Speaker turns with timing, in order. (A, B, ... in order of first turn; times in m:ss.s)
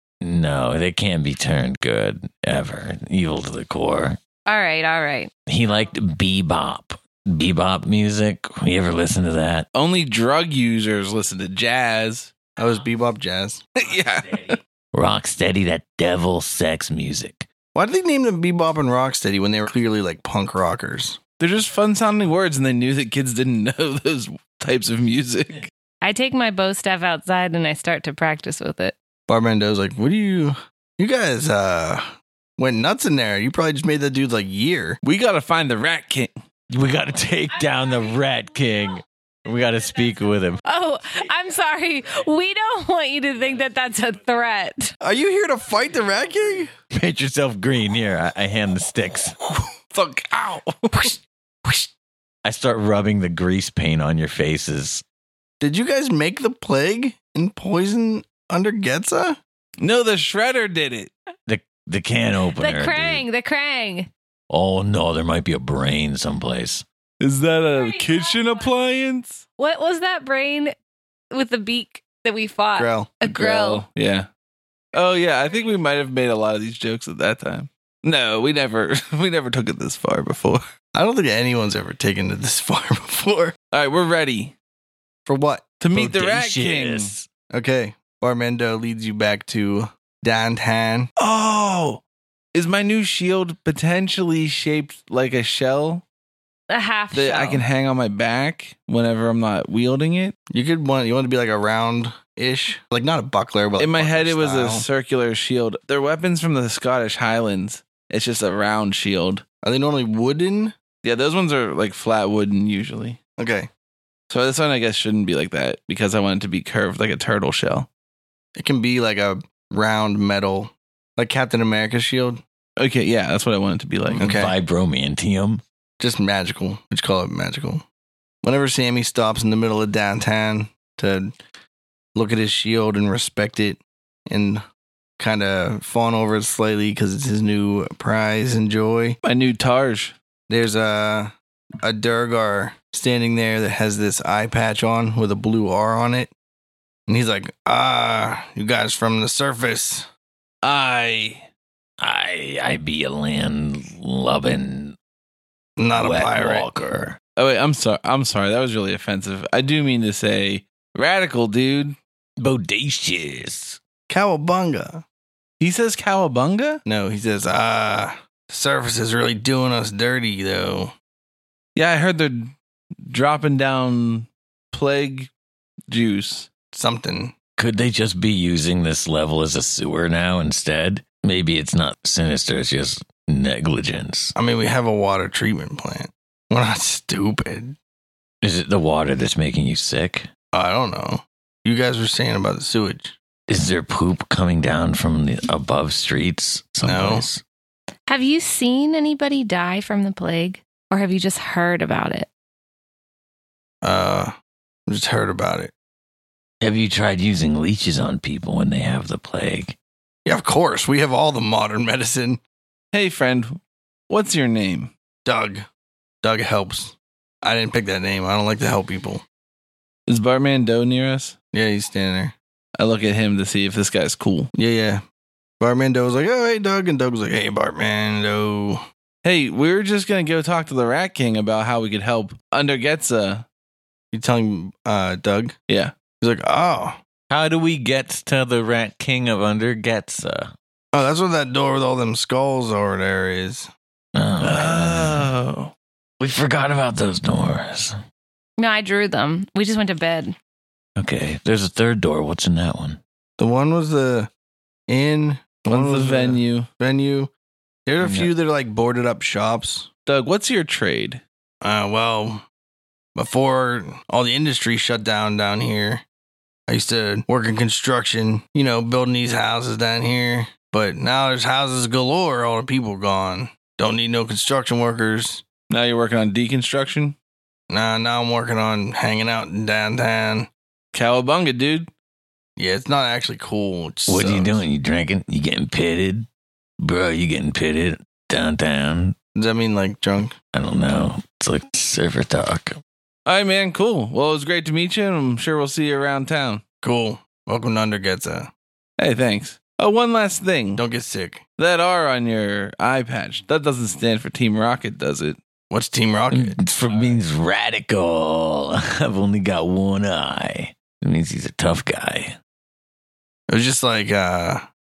0:00.2-0:04.2 A
0:04.5-0:05.3 B
0:05.5-0:09.7 A
0:09.7-0:12.3 C
0:12.6-0:13.6 D
0:13.8-0:14.6 C
0:14.9-0:17.5 A
0:17.7-0:21.2 D
0:21.4-0:25.7 C
0:26.0-0:28.9 B
0:29.3-0:35.0 D
0:35.0-0:36.4 C
0:36.7-0:40.6 A
0:40.6-0:44.9 B
0:45.0-0:46.7 D
0:46.9-0:49.4 A
0:49.9-0:51.2 C
0:52.4-0:55.0 A
0:55.6-0:59.4 D
0:59.8-1:01.1 C
1:01.5-1:03.2 A
1:02.6-1:04.1 B
1:04.5-1:06.8 A
1:07.2-1:09.4 C
1:09.6-1:10.7 B
1:11.3-1:13.8 B
1:12.8-1:13.2 D
1:13.2-1:14.3 C
1:14.9-1:20.6 C
1:20.9-1:23.5 D
1:23.7-1:24.5 C
1:25.2-1:25.8 D
1:25.8-1:27.1 C
1:25.9-1:27.3 A
1:27.5-1:31.1 D
1:31.2-1:32.0 C
1:32.5-1:36.0 C
1:36.7-1:37.6 B
1:37.1-1:40.3 C
1:40.5-1:44.8 D
1:43.8-1:49.4 C
1:49.6-1:50.7 D
1:51.0-1:53.2 C
1:53.4-1:53.7 D
1:54.3-1:57.9 C
1:58.6-2:02.4 D
2:02.8-2:04.3 C
2:04.1-2:05.6 A
2:04.2-2:04.6 D
2:06.0-2:07.8 D
2:08.4-2:11.3 D
2:12.1-2:14.6 D
2:15.2-2:19.2 D
2:19.2-2:20.1 C
2:20.5-2:26.3 D
2:27.1-2:30.1 D
2:30.6-2:31.5 C
2:32.0-2:35.0 A
2:35.8-2:36.7 D
2:35.9-2:37.2 A
2:37.4-2:42.0 C
2:42.4-2:43.8 A
2:44.1-2:45.0 D
2:45.6-2:46.8 C
2:46.8-2:50.9 D
2:51.7-2:52.5 C
2:53.0-2:55.3 C
2:55.9-2:56.5 C
2:56.7-2:57.3 D
2:57.6-3:04.3 A
3:04.3-3:07.8 D
3:08.4-3:10.3 A
3:10.5-3:13.2 D
3:13.5-3:17.4 A
3:16.8-3:17.3 D
3:18.1-3:22.3 B
3:23.8-3:24.3 D
3:24.9-3:25.7 D
3:26.6-3:29.8 A
3:30.2-3:32.4 D
3:32.9-3:34.9 C
3:35.2-3:35.6 D
3:36.2-3:39.2 D
3:40.1-3:41.4 C
3:41.5-3:42.3 D
3:42.8-3:44.5 C
3:44.5-3:45.0 D
3:45.6-3:48.8 D
3:49.2-3:53.4 C
3:54.1-3:55.6 D
3:56.2-3:57.0 D
3:57.3-4:00.5 A
4:00.9-4:03.7 D
4:04.1-4:05.3 A
4:04.4-4:05.7 C
4:06.2-4:08.0 A
4:08.6-4:10.3 B
4:11.0-4:13.0 A
4:13.4-4:14.3 D
4:14.9-4:17.3 D
4:15.7-4:16.7 C
4:17.8-4:19.9 D
4:18.0-4:18.3 A
4:20.0-4:21.2 C
4:21.6-4:22.4 D
4:23.1-4:26.0 D
4:26.7-4:35.4 D
4:35.7-4:37.2 C
4:37.7-4:40.5 D
4:40.9-4:41.9 C
4:42.6-4:44.6 D
4:44.1-4:46.3 A
4:46.8-4:49.2 A
4:49.4-4:50.3 D
4:50.5-4:52.7 A
4:53.2-4:56.6 C
4:56.8-4:58.5 D
4:59.0-5:00.8 C
5:00.8-5:01.4 D
5:01.6-5:05.4 C
5:05.7-5:06.6 D
5:06.3-5:12.4 A
5:13.5-5:14.6 D